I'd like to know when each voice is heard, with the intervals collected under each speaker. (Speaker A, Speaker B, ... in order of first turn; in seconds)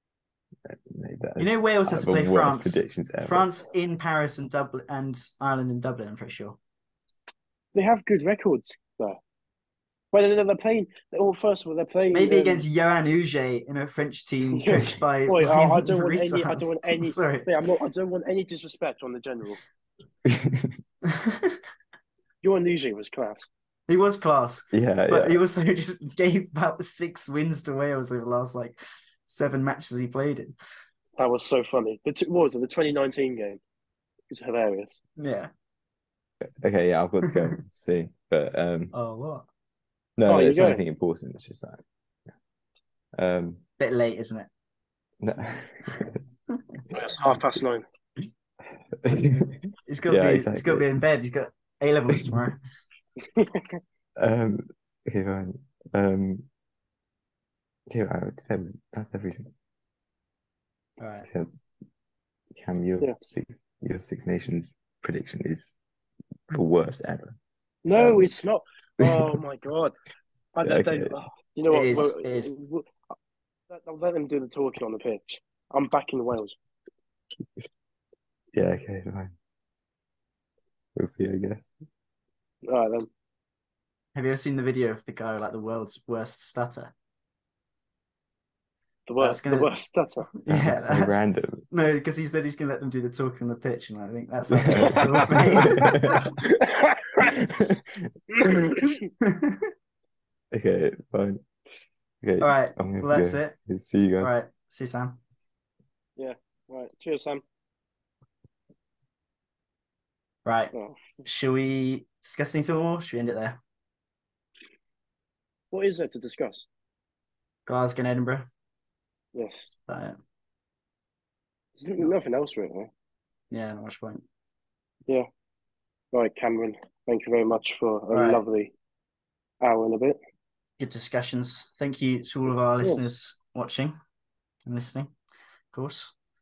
Speaker A: 0.7-3.5, 20.2-20.8, 24.7-25.4, 36.6-38.9, 40.2-41.8, 43.1-43.6, 45.2-46.2, 48.9-49.6, 50.1-50.9, 52.1-52.4, 54.2-56.5, 57.9-59.5, 62.5-65.8, 66.5-67.4, 67.9-68.3, 69.0-69.4, 70.6-71.2, 78.5-79.3, 80.9-81.7, 90.5-91.6, 94.5-96.3, 97.2-98.1, 100.5-101.4, 102.2-104.3
Speaker B: 1.4-6.6, 12.1-17.5, 21.0-21.6, 23.9-30.5, 35.2-35.5, 38.9-39.5, 43.8-44.5, 46.6-46.8, 49.1-52.6, 61.0-61.3, 71.7-72.5, 84.1-86.9, 89.2-89.7, 90.3-96.2, 99.2-99.7, 102.4-103.5, 104.2-105.2, 110.4-110.7, 111.2-113.6, 117.7-118.5, 119.9-120.2, 123.5-124.2, 128.1-128.4, 130.8-134.0, 134.7-135.1, 135.7-136.1
Speaker C: 7.7-9.2, 10.1-12.7, 14.5-19.6, 22.4-23.5, 31.2-33.6, 34.3-35.0, 40.3-40.8, 46.9-47.8, 53.3-53.8, 67.8-70.0, 70.5-72.9, 73.7-76.6, 82.7-83.1, 89.1-90.3, 94.9-97.3, 98.3-99.0, 106.2-107.4, 110.7-111.2, 115.7-116.7, 119.3-119.7, 121.8-122.9, 126.1-128.7, 129.6-130.2